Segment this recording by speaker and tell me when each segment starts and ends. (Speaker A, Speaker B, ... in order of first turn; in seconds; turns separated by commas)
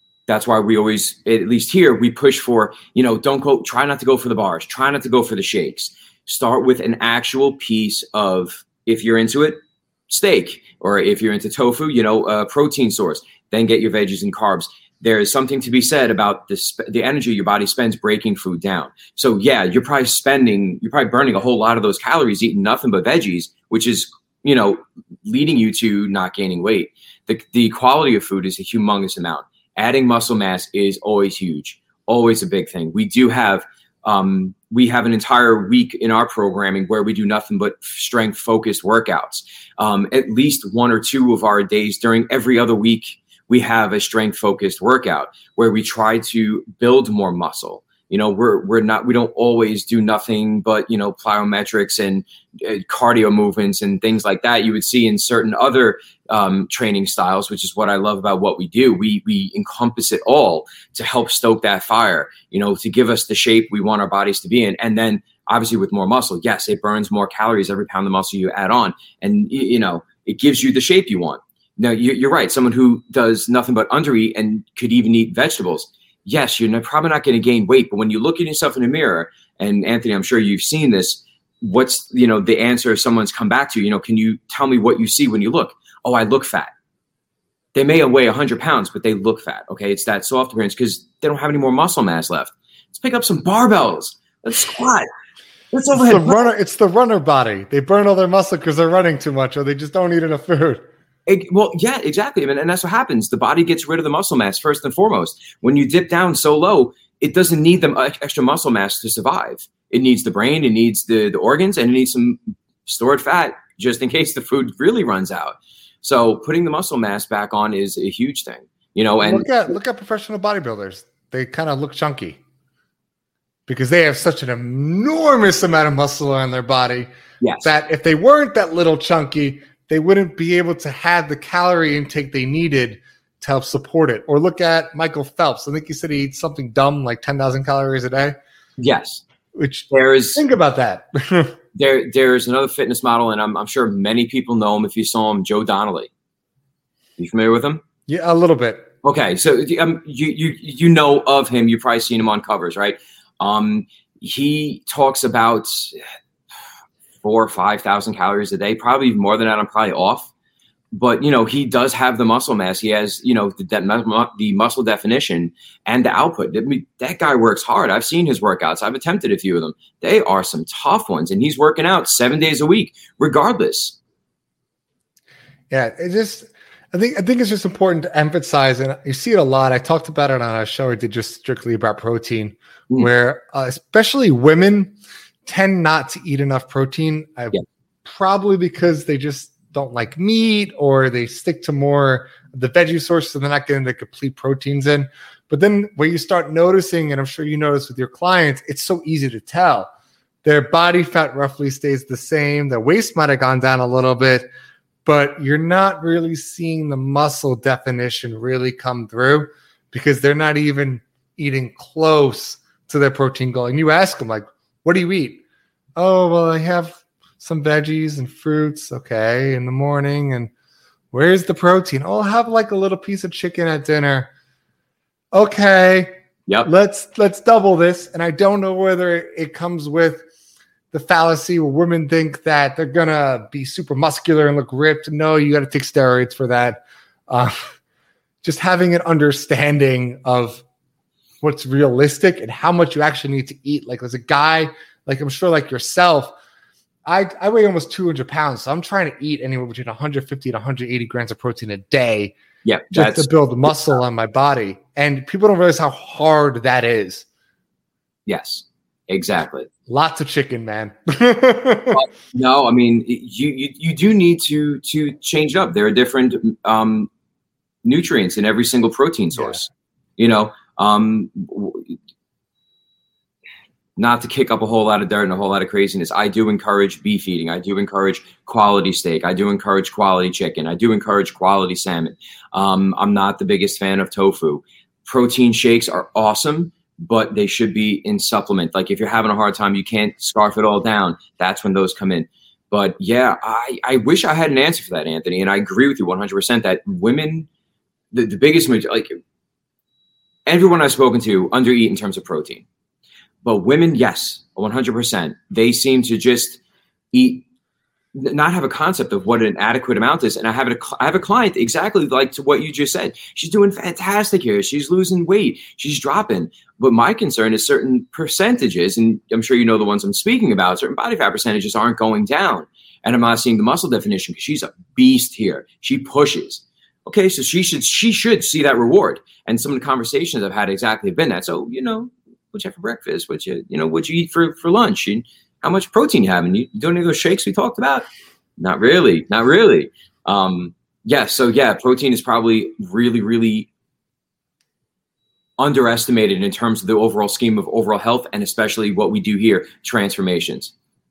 Speaker A: 0.3-86.7, Speaker A: 87.7-95.1, Speaker A: 95.7-96.5, Speaker B: 95.9-100.9, Speaker A: 101.2-119.5, Speaker B: 119.2-122.4, Speaker B: 123.7-127.1, Speaker A: 127.4-127.7, Speaker B: 127.6-138.3, Speaker A: 138.8-139.2, Speaker B: 139.5-141.6, Speaker A: 139.9-140.4, Speaker A: 141.7-146.1, Speaker A: 147.2-147.8, Speaker B: 148.1-148.9, Speaker A: 149.0-156.0, Speaker A: 157.2-160.3, Speaker A: 160.9-174.0, Speaker B: 175.7-184.9, Speaker B: 185.4-199.9, Speaker B: 200.4-204.5, Speaker B: 205.0-215.4, Speaker B: 216.0-220.5, Speaker B: 221.1-224.3, Speaker B: 225.3-226.1, Speaker B: 226.6-230.2, Speaker B: 230.9-237.6, Speaker B: 238.4-240.6, Speaker B: 241.4-246.3, Speaker B: 247.1-252.3, Speaker A: 252.6-253.7, Speaker B: 252.9-257.2, Speaker A: 258.3-259.7, Speaker B: 259.9-262.0, Speaker A: 261.9-267.1, Speaker A: 267.8-271.9, Speaker A: 274.0-297.5, Speaker A: 298.1-299.1, Speaker A: 300.5-302.6, Speaker A: 303.4-306.6, Speaker A: 307.1-307.4, Speaker A: 308.1-338.0, Speaker A: 338.6-343.7, Speaker A: 345.6-350.7